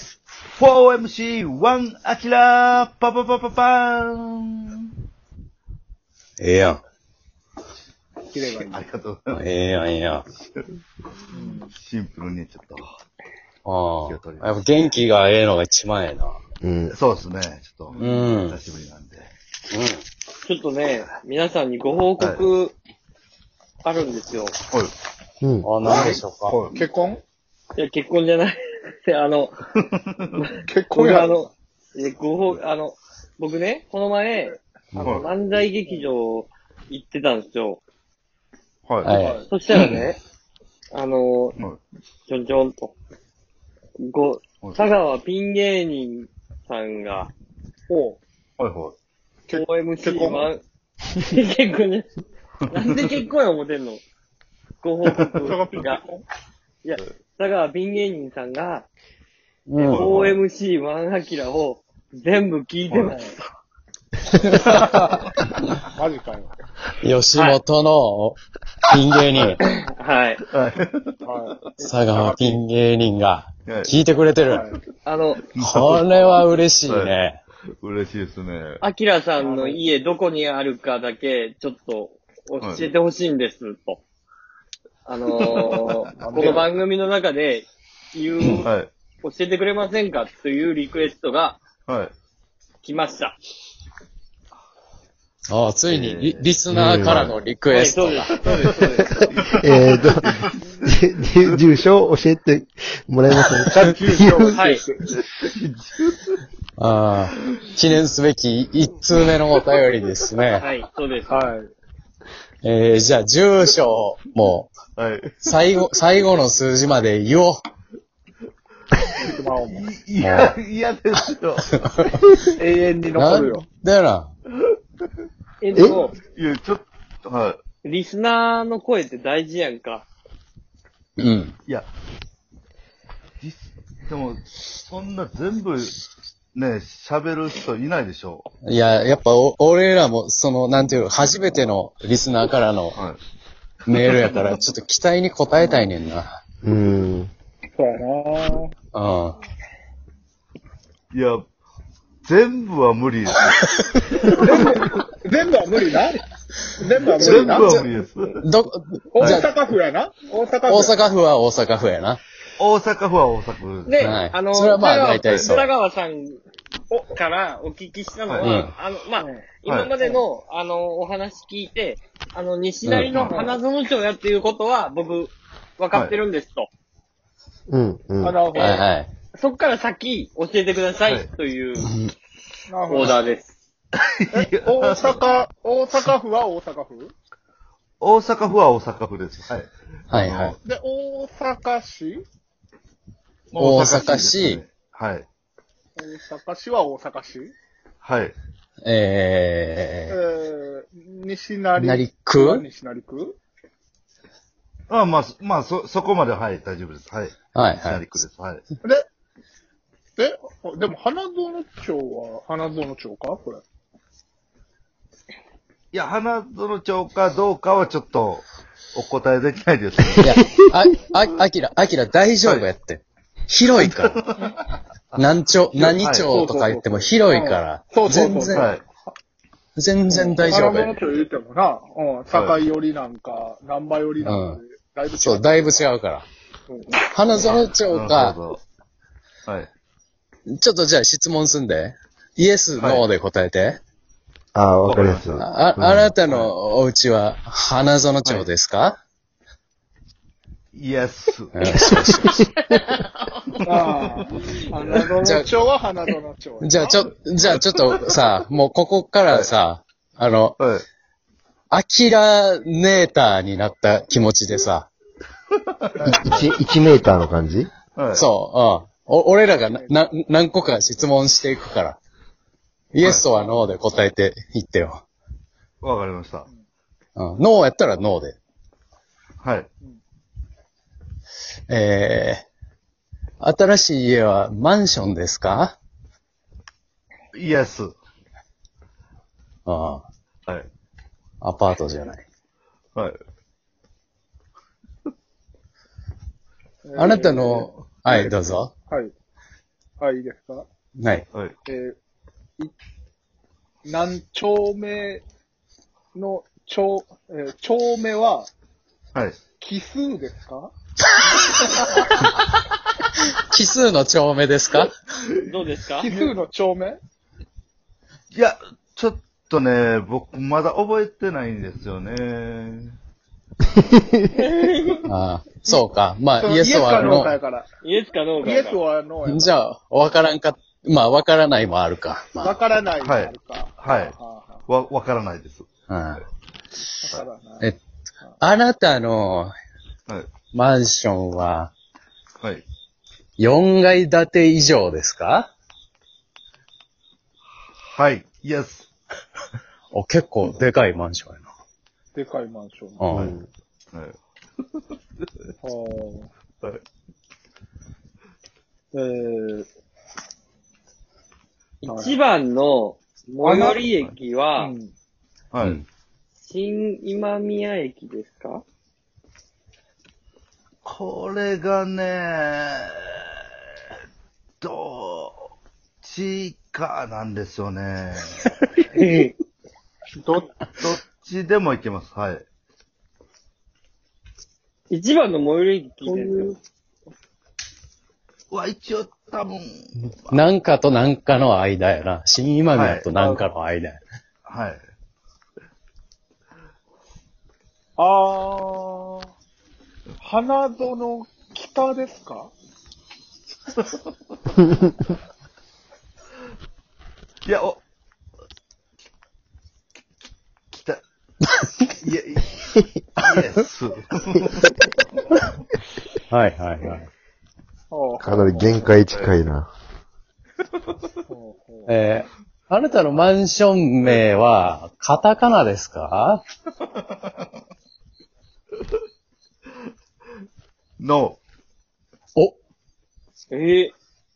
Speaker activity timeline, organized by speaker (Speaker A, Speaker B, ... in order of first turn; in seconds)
Speaker A: 0.5-4.8, 8.7-9.4, 11.8-12.9, 14.1-14.4, 16.9-19.3, 22.2-22.5, 25.8-26.7, 35.0-35.3, 38.9-39.1, 48.6-48.9, 59.9-60.4, 62.9-63.1, 64.6-65.0, 70.5-71.2, 73.6-73.9, 75.5-76.3, 76.8-77.2, 77.8-78.8, 82.6-82.9, 85.6-85.9, 88.5-88.9, 91.9-92.1, 95.9-96.5, 99.4-100.5, 105.1-106.3, 107.4-107.7, 115.0-115.5, 119.7-121.7, 125.9-127.6, 133.4-135.9, 136.5-138.4, 144.1-144.5, 151.1-151.4, 152.2-153.6, 157.2-158.4, 162.6-164.2, 165.3-165.6, 168.3-168.5, 169.7-169.9, 173.1-173.5, 175.9-176.2, 181.0-181.3, 184.0-185.2, 188.0-190.6, 193.5-195.3, 198.0-198.3, 204.9-208.6, 215.9-220.3, 223.8-224.5, 225.7-226.3, 228.5-228.8, 232.3-232.6, 237.9-238.6, 242.8-243.0, 244.8-245.4, 246.2-246.5, 250.7-251.5, 253.7-254.1, 260.6-260.8, 267.9-268.3, 275.8-276.5, 279.4-279.7, 287.3-287.9, 316.0-316.3, 318.3-322.9, 333.0-334.1, 334.7-335.7, 347.8-348.9, 365.5-365.8, 370.8-373.2, 374.6-375.5, 376.0-378.3, 380.8-382.4, 388.5-390.4, 392.7-393.1, 394.4-394.8, 407.4-407.8, 410.7-411.0, 412.0-412.6, 413.2-414.7, 426.8-427.2, 431.0-431.4
Speaker B: 6.4-6.8, 9.3-10.2, 13.7-16.4, 18.0-18.6, 19.7-20.0, 25.6-26.6, 39.0-40.0, 59.7-60.1, 67.0-69.6, 71.8-74.7, 75.6-77.4, 95.5-98.3, 106.8-110.7, 112.6-114.7, 115.4-117.6, 120.2-120.5, 121.7-122.2, 123.2-124.3, 131.2-131.5, 138.6-143.0, 143.8-146.4, 148.9-149.4, 157.2-157.8, 158.4-159.5, 160.7-162.2, 164.0-165.7, 168.4-168.7, 172.8-173.1, 178.6-179.1, 190.1-190.5, 193.6-194.6, 198.8-200.2, 201.8-202.7, 207.5-208.2, 220.2-224.2, 225.2-228.7, 229.8-230.9, 234.2-234.6, 235.1-236.2, 237.1-238.4, 240.5-243.8, 245.4-249.0, 251.5-252.4, 254.9-255.5, 256.6-260.6, 261.7-264.9, 268.1-272.0, 272.9-275.0, 277.1-278.4, 281.7-282.4, 283.4-285.8, 289.6-290.0, 291.4-292.2, 296.9-298.7, 301.0-301.2, 313.4-314.9, 325.1-327.4, 329.2-332.6, 335.9-336.2, 338.4-339.5, 340.5-341.7, 343.4-345.5, 349.9-351.5, 353.0-353.4, 390.3-394.0, 416.3-417.1, 421.9-426.4
Speaker C: 8.3-8.8, 11.3-11.7, 26.7-27.2, 30.6-31.4, 35.0-35.2, 39.1-39.5, 47.9-48.2, 49.5-50.5, 55.4-56.2, 64.6-65.3, 65.8-66.5, 71.2-71.6, 72.1-72.5, 74.5-74.8, 79.4-79.8, 86.2-86.7, 103.7-105.2, 111.3-111.7, 119.2-119.9, 122.5-123.6, 147.7-148.7, 154.3-156.2, 156.8-157.8, 159.1-161.1, 169.2-169.4, 173.3-173.6, 178.2-178.8, 182.7-183.3, 184.3-187.1, 190.6-192.2, 196.0-197.5, 200.1-203.4, 210.2-213.6, 226.3-229.1, 230.1-235.9, 236.7-237.0, 253.6-257.1, 266.1-266.4, 269.7-270.0, 296.8-297.8, 300.0-300.6, 301.6-302.0, 303.8-305.2, 306.1-308.5, 309.6-310.7, 316.0-317.0, 326.4-327.7, 328.4-329.5, 332.4-334.7, 337.0-338.4, 352.1-353.1, 355.6-356.3, 358.9-359.7, 361.9-362.2, 363.4-363.8, 364.6-364.9, 380.1-380.5, 386.0-386.6, 393.1-393.5, 398.0-399.3, 400.2-402.5, 417.9-418.9, 421.3-421.9
Speaker D: 16.6-16.9, 25.4-25.7, 96.7-97.3, 99.6-104.6, 146.6-147.3, 177.7-178.4, 244.5-246.1, 266.0-267.7, 323.8-324.2, 353.1-353.5, 418.2-419.7
Speaker E: 20.4-22.7, 23.8-24.6, 27.8-29.6, 30.4-37.8, 39.3-40.2, 40.9-41.6, 42.3-42.9, 44.0-47.3, 49.5-50.6, 51.3-52.1, 52.7-54.0, 54.8-56.0, 56.8-58.9, 59.8-63.2, 67.3-67.6, 69.6-70.4, 75.0-75.5, 78.8-84.0, 85.0-88.7, 89.2-91.6, 92.8-93.3, 97.7-99.3, 104.5-104.8, 110.6-111.5, 125.6-126.2, 127.8-130.1, 163.9-176.7, 178.5-178.8, 179.3-181.9, 182.9-183.5, 315.4-316.1, 324.3-325.0, 327.8-328.8, 361.8-364.7, 366.4-368.6, 378.9-379.3, 384.9-386.6, 433.5-433.9